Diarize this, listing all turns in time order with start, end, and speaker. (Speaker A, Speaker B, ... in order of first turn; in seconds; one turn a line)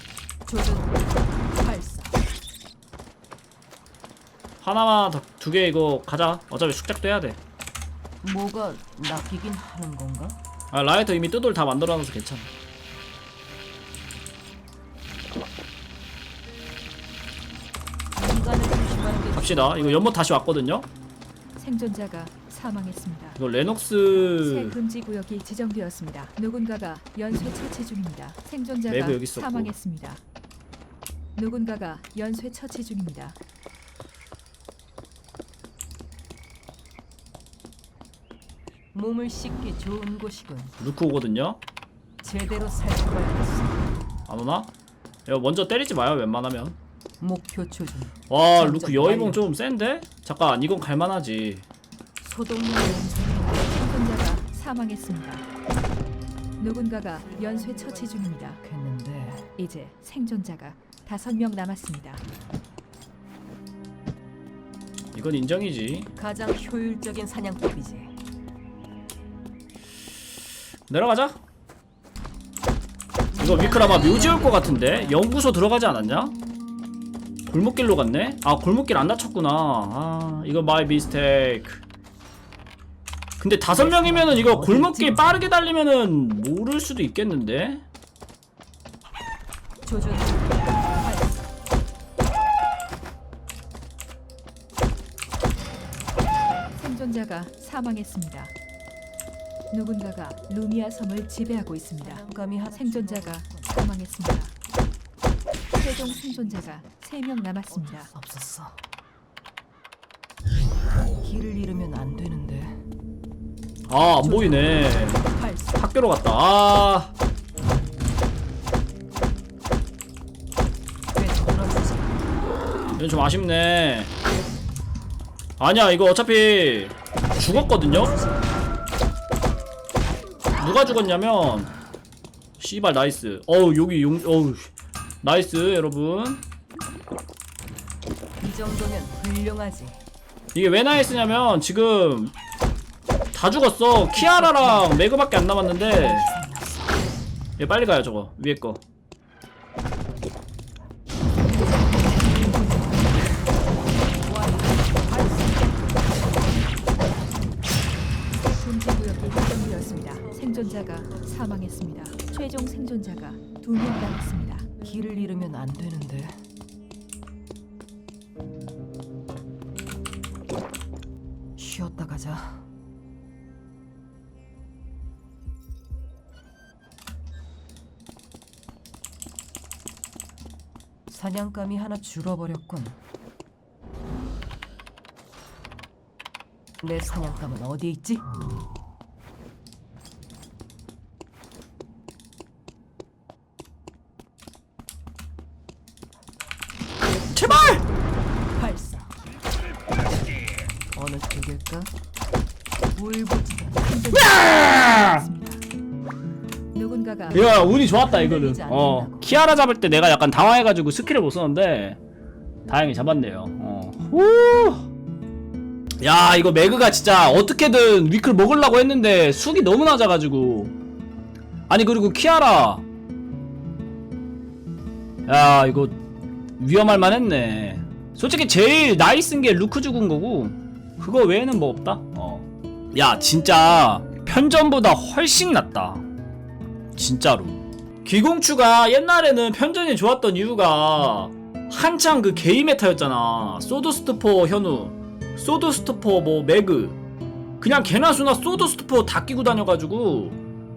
Speaker A: 0.5-2.2
Speaker B: 4.6-7.4
Speaker A: 8.2-10.4
Speaker B: 10.7-12.5
Speaker A: 18.1-20.1
Speaker B: 19.3-20.9
Speaker C: 21.6-23.4
Speaker B: 23.4-24.8
Speaker C: 24.4-30.2
Speaker B: 28.9-29.7
Speaker C: 31.3-33.4
Speaker A: 38.9-40.7
Speaker B: 40.8-41.6
Speaker A: 42.2-44.0
Speaker B: 44.3-44.7
Speaker B: 45.2-46.8
Speaker A: 47.2-49.4
Speaker B: 48.3-51.6
Speaker A: 52.2-53.7
Speaker C: 53.7-55.5
Speaker C: 56.6-58.6
Speaker A: 57.1-59.5
Speaker C: 59.6-62.2
Speaker B: 65.1-66.1
Speaker A: 66.1-68.1
Speaker B: 70.9-71.4
Speaker A: 73.3-75.3
Speaker B: 73.4-76.3
Speaker B: 77.5-81.8
Speaker B: 83.4-87.8
Speaker A: 83.7-85.5
Speaker A: 89.8-91.5
Speaker C: 96.7-98.5
Speaker C: 99.7-104.5
Speaker A: 102.0-103.8
Speaker A: 105.7-106.9
Speaker C: 105.8-108.1
Speaker A: 107.7-108.8
Speaker A: 111.2-112.8
Speaker B: 113.9-115.2
Speaker A: 114.2-115.8
Speaker B: 115.8-117.1
Speaker A: 121.1-122.2
Speaker B: 123.0-124.1
Speaker B: 125.6-128.2
Speaker A: 127.4-128.6
Speaker B: 130.6-131.7
Speaker B: 132.6-134.7
Speaker B: 135.2-136.4
Speaker A: 138.4-140.0
Speaker B: 140.5-142.3
Speaker B: 143.3-146.3
Speaker A: 144.1-145.0
Speaker A: 145.8-147.1
Speaker B: 147.6-148.8
Speaker A: 151.9-153.4
Speaker A: 154.1-157.4
Speaker C: 158.4-164.7
Speaker A: 159.2-161.4
Speaker A: 164.8-166.4
Speaker A: 171.6-172.7
Speaker A: 181.1-183.0
Speaker A: 186.8-188.2
Speaker B: 197.3-197.8
Speaker A: 198.6-199.2
Speaker A: 200.9-201.9
Speaker A: 202.9-204.0
Speaker C: 203.8-205.6
Speaker B: 204.1-205.2
Speaker C: 206.7-207.6
Speaker B: 207.3-212.0
Speaker A: 207.7-209.4
Speaker B: 212.7-214.8
Speaker B: 216.0-220.7
Speaker B: 221.7-222.8
Speaker B: 225.2-225.9
Speaker B: 226.6-236.1
Speaker B: 236.9-247.0
Speaker B: 247.6-250.4